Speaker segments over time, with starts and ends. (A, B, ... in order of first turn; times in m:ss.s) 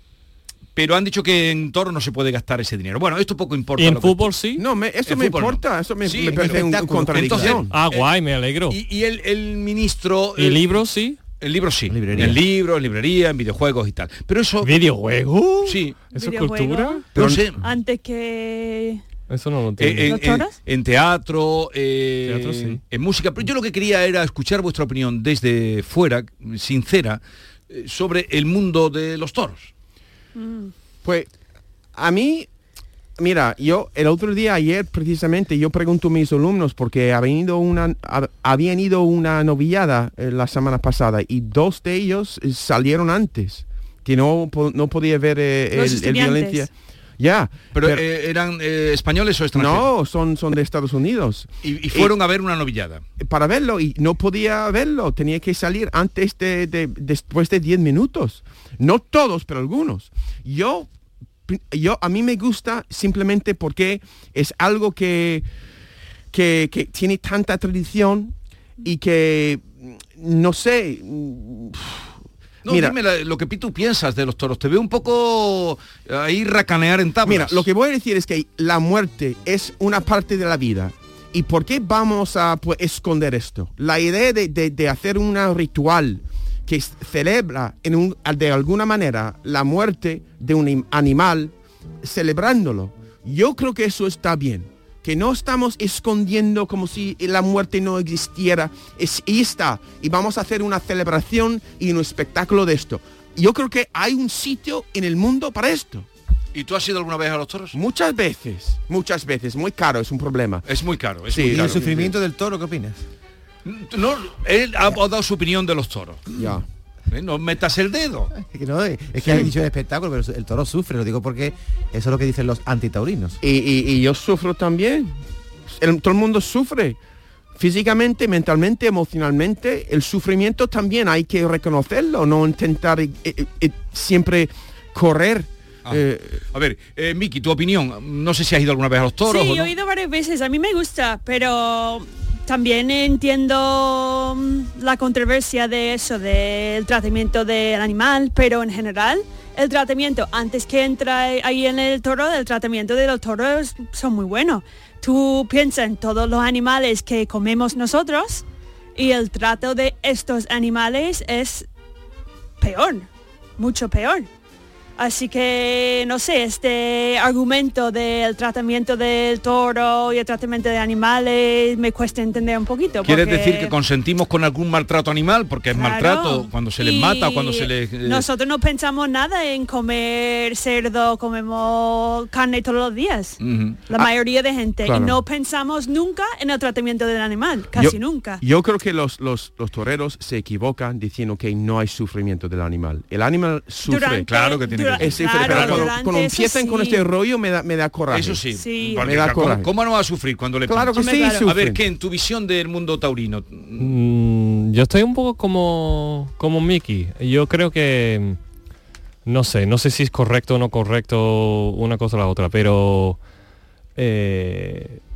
0:00.8-0:04.3 A
0:03.8-0:04.6 B
0:04.6-0:07.7 C
0:05.1-0:08.1 A
0:06.3-0:07.6 D
0:07.7-0:08.8 B
0:08.7-0:10.8 A
0:10.4-0:11.2 B
0:11.4-0:14.8 A
0:11.9-0:12.4 D
0:14.6-0:17.0 B
0:15.7-0:16.0 A
0:16.1-0:17.0 E
0:17.1-0:17.6 A
0:17.2-0:17.5 C
0:17.6-0:19.0 E
0:19.3-0:20.2 B
0:19.8-0:29.7 A
0:20.1-0:20.6 E
0:22.3-0:22.8 B
0:30.4-0:30.7 E
0:31.0-0:31.3 C
0:32.0-0:32.5 C
0:33.2-0:48.0 C
0:45.7-0:46.7 E
0:47.7-0:49.9 A
0:49.6-0:52.1 C
0:51.6-0:53.0 A
0:53.2-1:00.9 C
1:01.5-1:05.5 C
1:06.3-1:08.3 C
1:08.8-1:12.1 C
1:12.6-1:17.7 A
1:12.7-1:13.0 C
1:17.2-1:46.1 C
1:46.5-1:47.8 A
1:47.7-1:50.6 C
1:50.7-1:52.1 A
1:51.3-1:51.9 C
1:51.4-1:53.0 D
1:53.6-1:56.3 A
1:56.4-1:56.6 C
1:57.1-1:58.3 A
1:58.4-2:03.4 D
1:59.2-1:59.5 A
2:03.4-2:05.1 C
2:05.8-2:07.0 C
2:07.6-2:16.4 C
2:15.8-2:19.7 A
2:19.3-2:38.4 E
2:39.0-2:41.7 E
2:42.6-2:43.1 E
2:43.6-2:44.3 E
2:45.0-2:53.8 E
2:53.0-2:58.2 A
2:55.7-3:03.4 E
3:03.4-3:03.9 A
3:03.9-3:08.4 E
3:04.8-3:05.2 C
3:07.7-3:14.3 C
3:13.9-3:17.0 E
3:14.3-3:15.9 A
3:15.0-3:18.4 C
3:18.1-3:23.9 A
3:18.5-3:19.1 E
3:19.0-3:19.7 C
3:20.7-3:21.8 C
3:21.0-3:21.5 E
3:23.8-3:28.4 B
3:29.3-3:33.2 B
3:34.0-3:35.0 B